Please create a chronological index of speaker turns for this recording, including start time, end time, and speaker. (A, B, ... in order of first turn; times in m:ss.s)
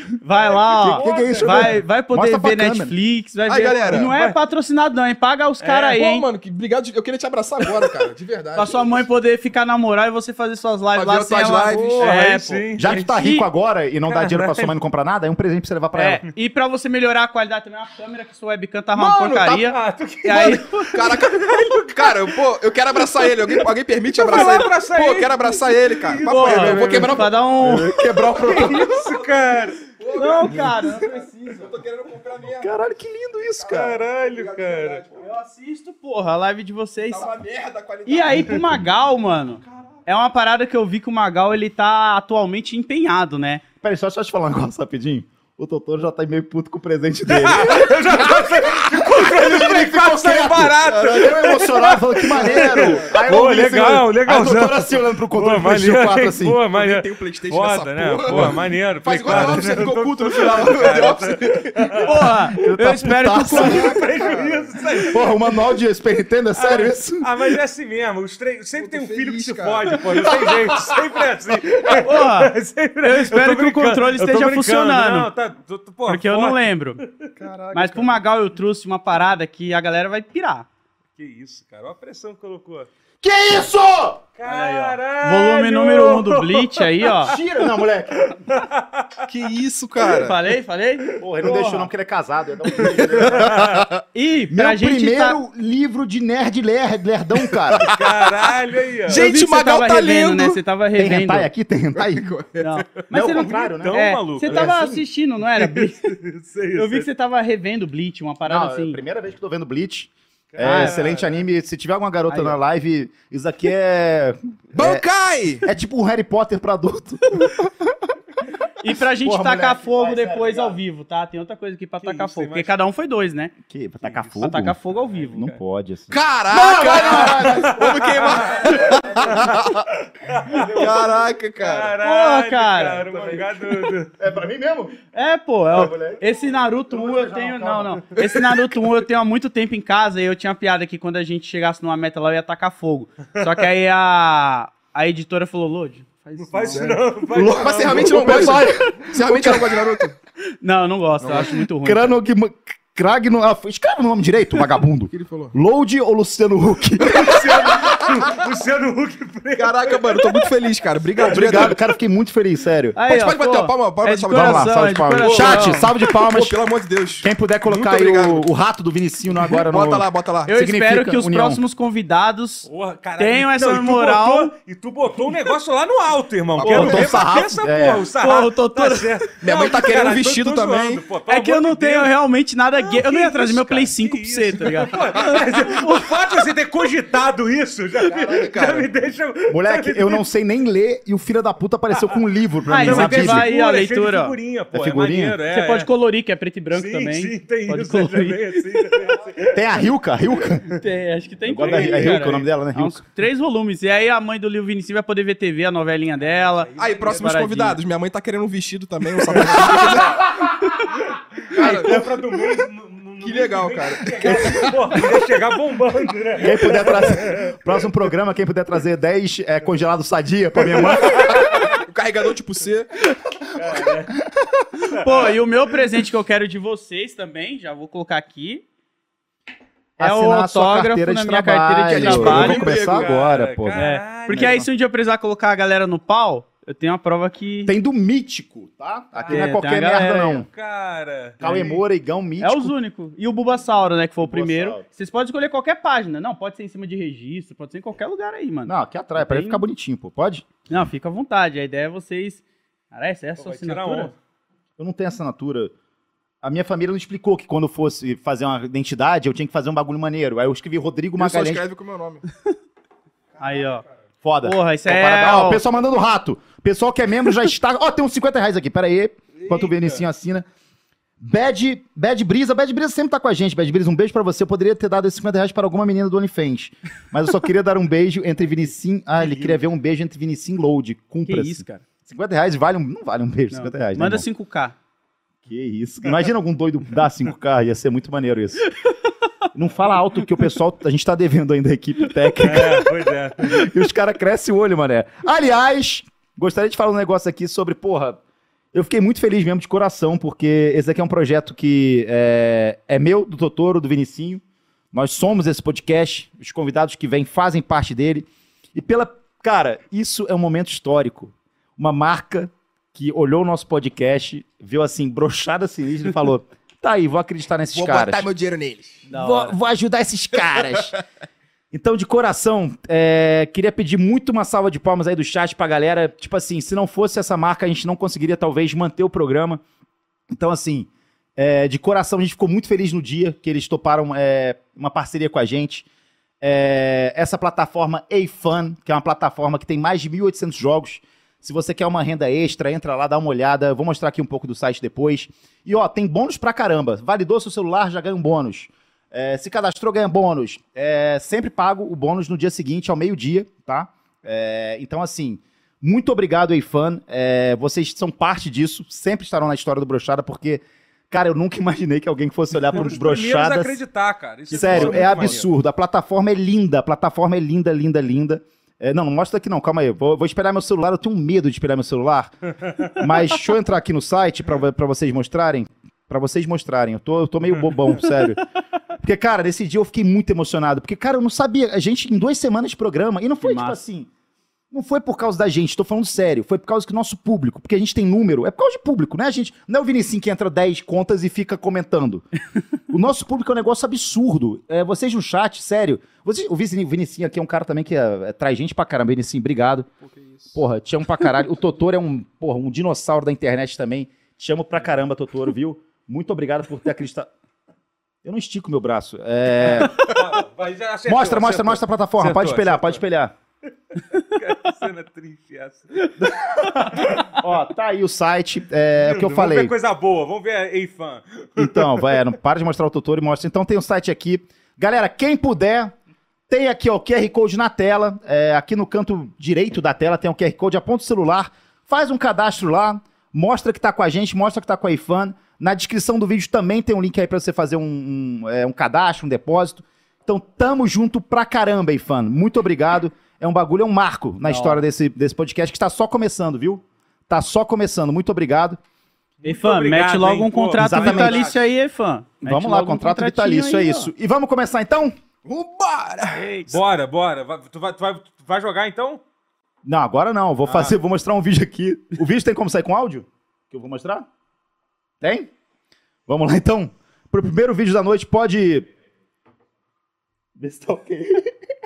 0:00.2-0:06.3 A
0:00.4-0:01.8 B
0:01.0-0:02.9 C
0:03.4-0:04.1 D
0:03.9-0:04.4 B
0:05.6-0:09.0 D
0:08.5-0:13.4 A
0:10.9-0:12.2 D
0:12.0-0:13.0 B
0:12.8-0:16.2 C
0:14.1-0:14.7 B
0:15.9-0:20.9 A
0:19.0-0:19.4 D
0:19.3-0:22.4 B
0:20.3-0:27.8 D
0:23.1-0:23.7 B
0:24.2-0:27.3 B
0:26.2-0:28.0 A
0:27.6-0:29.1 C
0:28.0-0:29.8 B
0:28.4-0:32.7 D
0:30.1-0:31.7 A
0:32.6-0:34.0 C
0:33.6-0:35.3 D
0:33.7-0:35.0 B
0:35.1-0:37.3 A
0:37.0-0:38.8 D
0:38.0-0:43.6 A
0:43.8-0:56.6 C
0:47.3-1:02.3 B
0:50.8-0:51.3 D
0:52.4-0:53.2 D
0:56.7-1:02.1 D
0:58.3-0:58.6 C
0:59.2-0:59.6 C
1:02.0-1:03.9 A
1:02.5-1:04.3 C
1:03.5-1:05.4 B
1:03.5-1:04.7 D
1:05.1-1:07.3 C
1:06.5-1:17.3 B
1:08.8-1:10.0 D
1:10.1-1:11.0 C
1:11.9-1:15.3 A
1:16.1-1:17.0 A
1:17.4-1:18.2 D
1:17.7-1:20.6 A
1:21.2-1:22.9 B
1:23.2-1:24.2 C
1:24.4-1:27.1 B
1:24.4-1:27.4 A
1:27.2-1:28.4 C
1:28.4-1:29.2 B
1:29.2-1:30.4 D
1:30.1-1:31.5 A
1:31.2-1:33.9 C
1:31.4-1:31.8 B
1:32.8-1:34.0 D
1:33.0-1:33.9 B
1:34.1-1:35.4 A
1:34.5-1:37.9 C
1:37.6-1:38.3 D
1:37.8-1:39.3 B
1:39.0-1:40.6 D
1:39.1-1:41.5 A
1:41.0-1:42.3 C
1:41.9-1:42.8 D
1:42.6-1:46.1 A
1:43.1-1:44.7 B
1:43.1-1:45.0 C
1:45.5-1:47.1 B
1:46.8-1:49.0 A
1:48.4-1:55.0 C
1:50.5-1:51.4 B
1:50.6-1:51.0 A
1:52.3-1:52.6 A
1:54.7-1:55.6 D
1:55.6-1:58.1 C
1:58.8-2:03.5 A
1:59.2-2:00.8 C
2:02.0-2:02.8 B
2:03.6-2:04.8 C
2:04.0-2:05.6 B
2:04.4-2:05.5 A
2:05.4-2:09.7 C
2:06.1-2:09.9 D
2:07.2-2:14.1 B
2:10.6-2:11.9 D
2:12.0-2:13.1 A
2:13.1-2:15.0 C
2:15.1-2:26.9 A
2:15.7-2:16.2 C
2:16.9-2:18.6 C
2:23.4-2:23.7 B
2:26.5-2:28.3 B
2:26.6-2:30.1 D
2:27.3-2:30.0 C
2:30.6-2:32.2 A
2:31.2-2:37.9 C
2:35.1-2:35.5 D
2:37.1-2:40.4 B
2:37.2-2:37.8 D
2:39.6-2:41.8 D
2:41.3-2:43.0 C
2:42.9-2:45.9 A
2:43.0-2:48.5 D
2:44.3-2:46.6 C
2:47.2-2:51.6 C
2:49.4-2:50.5 D
2:50.5-2:52.7 A
2:52.7-3:02.1 B
2:53.2-2:54.5 A
2:56.6-2:57.1 D
2:56.7-2:58.1 C
2:58.2-2:59.2 A
2:59.4-3:01.0 D
3:01.3-3:06.3 A
3:02.8-3:10.2 B
3:08.0-3:08.9 D
3:09.5-3:13.5 C
3:12.7-3:14.3 A
3:12.7-3:15.9 B
3:14.7-3:15.4 C
3:15.5-3:18.6 A
3:16.7-3:19.6 B
3:19.5-3:20.7 C
3:20.7-3:27.8 A
3:21.5-3:23.0 C
3:21.6-3:22.2 B
3:26.2-3:27.2 B
3:26.8-3:30.3 D
3:29.6-3:30.2 B
3:31.4-3:37.6 B
3:31.5-3:32.0 D
3:31.7-3:32.0 C
3:33.2-3:34.6 D
3:34.2-3:35.0 C
3:36.4-3:41.6 C
3:40.7-3:41.8 B
3:41.2-3:42.9 D
3:43.5-3:44.2 B
3:44.2-3:44.6 C
3:44.9-3:48.6 A
3:45.0-3:45.3 B
3:50.0-3:54.7 C
3:50.0-3:52.6 A
3:51.9-3:53.1 D
3:52.3-3:54.6 B
3:53.8-3:57.8 A
3:57.6-4:00.5 C
3:59.2-3:59.6 B
3:59.3-4:00.4 A
4:00.4-4:01.8 B
4:01.4-4:02.7 C
4:02.4-4:09.6 A
4:04.2-4:04.8 C
4:08.6-4:10.4 C
4:10.7-4:14.1 A
4:13.4-4:14.1 B
4:14.8-4:15.7 C
4:16.4-4:21.6 C
4:21.2-4:22.2 D
4:23.4-4:23.9 B
4:23.4-4:23.8 A
4:24.2-4:30.4 C
4:24.4-4:25.6 A
4:29.4-4:30.0 B
4:31.2-4:44.2 C
4:39.2-4:39.6 B
4:41.2-4:41.8 A
4:43.5-4:44.8 A
4:45.4-4:48.7 C
4:49.5-4:58.2 C
4:52.4-4:53.6 B
4:58.7-5:04.4 C
5:04.9-5:18.3 C
5:17.7-5:19.1 D
5:19.1-5:19.6 A
5:19.1-5:21.0 C
5:21.7-5:29.6 C
5:30.3-5:35.9 C
5:36.4-6:03.8 C
6:02.7-6:05.4 B
6:04.5-6:12.3 C
6:04.5-6:05.4 D
6:12.9-6:18.4 C
6:19.0-6:24.1 C
6:23.4-6:23.8 A
6:24.7-6:32.2 C
6:32.9-6:39.9 C
6:40.0-6:40.5 D
6:40.5-6:47.3 C
6:48.2-6:50.1 C
6:49.7-6:53.0 B
6:51.1-6:53.3 C
6:54.2-6:56.1 B
6:56.2-6:59.7 C
6:56.9-6:57.3 B
6:59.0-7:02.1 B
7:01.6-7:05.9 C
7:06.5-7:28.8 C
7:24.4-7:24.8 A
7:29.4-7:31.6 B
7:29.4-7:34.1 A
7:30.8-7:31.5 C
7:32.4-7:35.1 C
7:35.4-7:36.5 D
7:36.3-7:36.8 A
7:36.7-7:39.2 B
7:39.8-7:44.2 C
7:40.6-7:40.9 B
7:45.2-7:45.5 C
7:46.3-7:48.9 C
7:50.6-7:51.5 C